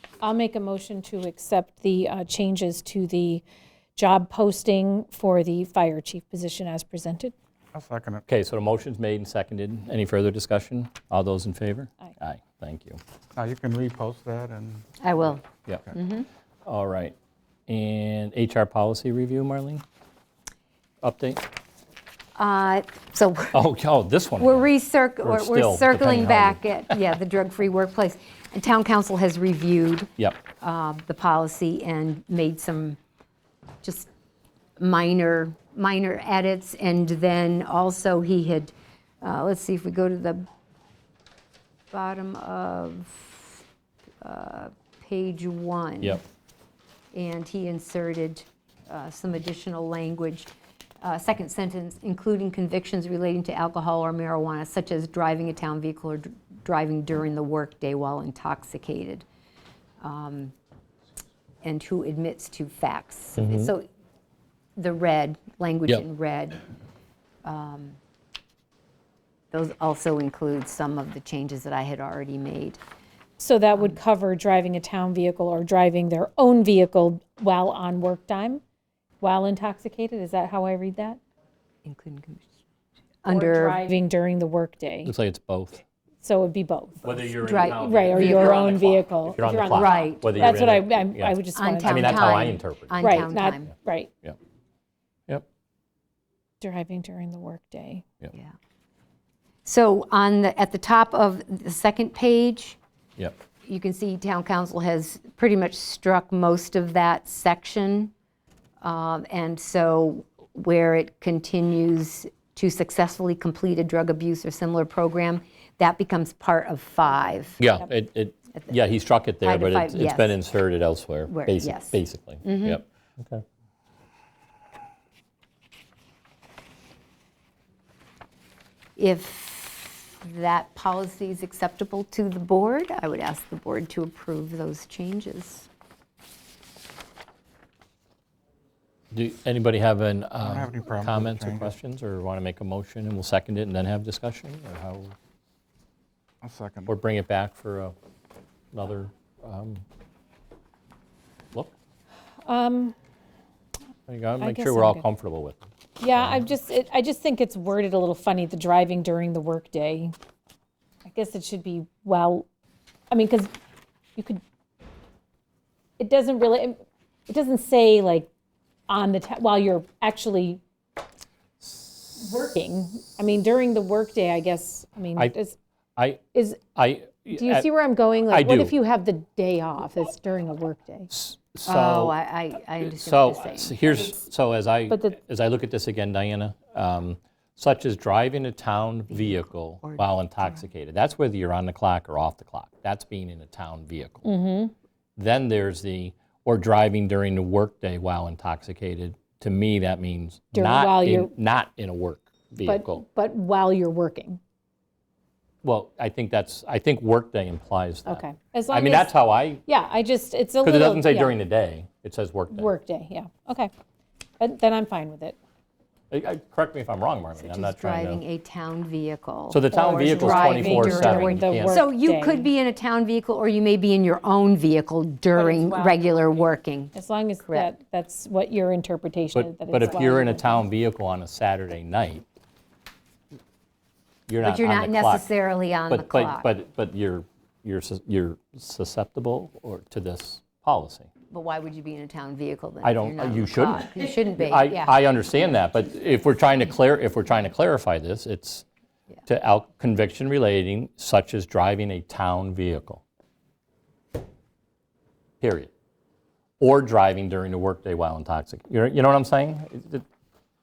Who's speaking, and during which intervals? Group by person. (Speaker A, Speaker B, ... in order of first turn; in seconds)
Speaker A: 0.2-3.4, 4.0-7.3, 73.4-78.6, 79.2-81.2, 83.3-85.1, 86.2-94.1, 96.6-98.0, 152.4-152.9, 154.4-155.0, 156.0-160.2, 161.1-162.5, 163.1-163.5, 164.2-164.4, 166.0-168.3, 168.9-170.6, 172.2-175.6, 176.3-176.6, 177.3-181.1, 184.9-185.2, 194.2-194.7, 200.5-201.3, 202.6-204.4, 208.1-211.4, 212.5-213.7, 214.4-215.4, 219.7-222.5, 225.3-226.2, 226.9-230.6
Speaker B: 7.7-8.2, 13.4-14.8, 140.4-141.7, 146.4-146.9
Speaker C: 8.3-13.0, 16.7-17.1, 17.7-19.8, 21.0-21.4, 23.5-24.7, 25.2-26.6, 63.4-63.7, 85.0-85.8, 87.0-93.3, 117.6-123.4, 139.1-145.2, 146.9-147.9, 148.7-149.8, 154.1-155.6, 156.2-156.4, 176.0-176.2, 176.8-177.7, 178.3-178.8, 181.1-182.2, 182.8-194.3, 195.2-203.0, 205.6-209.6, 210.6-212.7, 216.1-218.2, 219.5-221.8, 229.3-232.2, 234.3-235.3, 235.9-241.1, 242.8-248.7, 249.3-253.0, 255.4-255.7, 256.6-260.1
Speaker D: 15.0-16.3, 22.4-23.6, 24.4-33.0, 33.8-34.1, 34.8-40.5, 41.9-43.6, 44.2-46.2, 47.1-50.5, 51.0-59.2, 60.0-60.5, 61.6-63.9, 64.8-66.7, 67.5-68.0, 69.5-72.8, 81.8-82.5, 83.2-83.8, 87.4-89.0, 89.6-90.6, 91.5-93.7, 99.7-102.8, 103.6-108.1, 108.8-117.6, 119.4-120.4, 121.3-122.8, 129.0-135.7, 181.6-184.2, 189.1-190.0, 217.4-226.9, 234.4-236.5, 241.3-245.0